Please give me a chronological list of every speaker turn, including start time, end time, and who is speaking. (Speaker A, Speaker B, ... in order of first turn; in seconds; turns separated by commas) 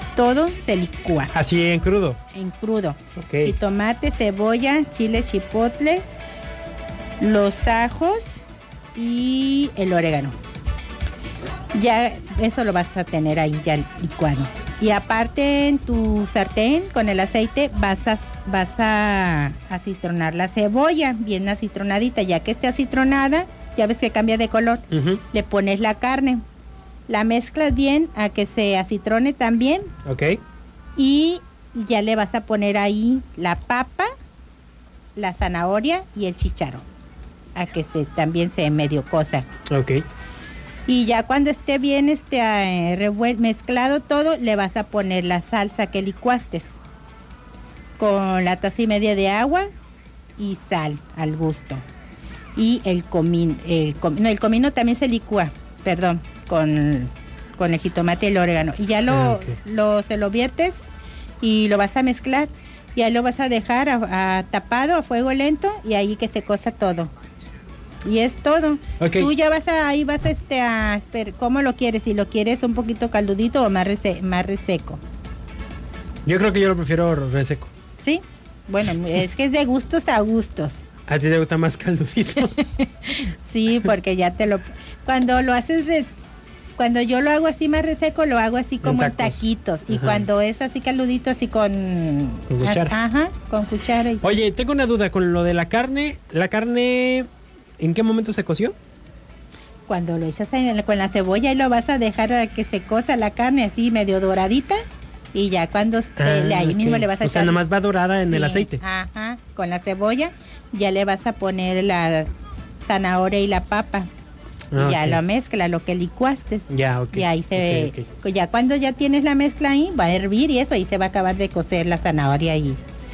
Speaker A: 0.1-1.3, Speaker B: 1.3-2.2, Speaker A: 2.3-6.0, Speaker B: 3.2-3.6, Speaker A: 7.2-8.4, Speaker A: 8.9-10.4, Speaker A: 11.7-26.4, Speaker B: 24.9-25.2, Speaker A: 27.1-29.9, Speaker B: 30.1-30.4, Speaker A: 31.0-34.1, Speaker A: 35.2-36.9, Speaker A: 37.5-39.5, Speaker B: 39.7-40.0, Speaker A: 40.9-46.7, Speaker A: 48.0-49.7, Speaker A: 50.4-51.8, Speaker A: 52.6-60.8, Speaker B: 59.1-59.5, Speaker A: 61.4-67.1, Speaker A: 68.0-75.0, Speaker B: 69.0-69.3, Speaker B: 76.3-77.7, Speaker A: 78.0-80.8, Speaker B: 81.1-82.6, Speaker A: 82.5-86.2, Speaker A: 86.8-94.3, Speaker B: 88.8-90.3, Speaker B: 92.5-93.0, Speaker B: 94.2-97.3, Speaker B: 97.8-98.8, Speaker A: 99.9-104.8, Speaker A: 105.3-107.6, Speaker B: 106.2-108.8, Speaker A: 108.3-112.3, Speaker A: 112.8-114.1, Speaker B: 114.7-115.2, Speaker A: 114.8-122.8, Speaker B: 116.7-118.1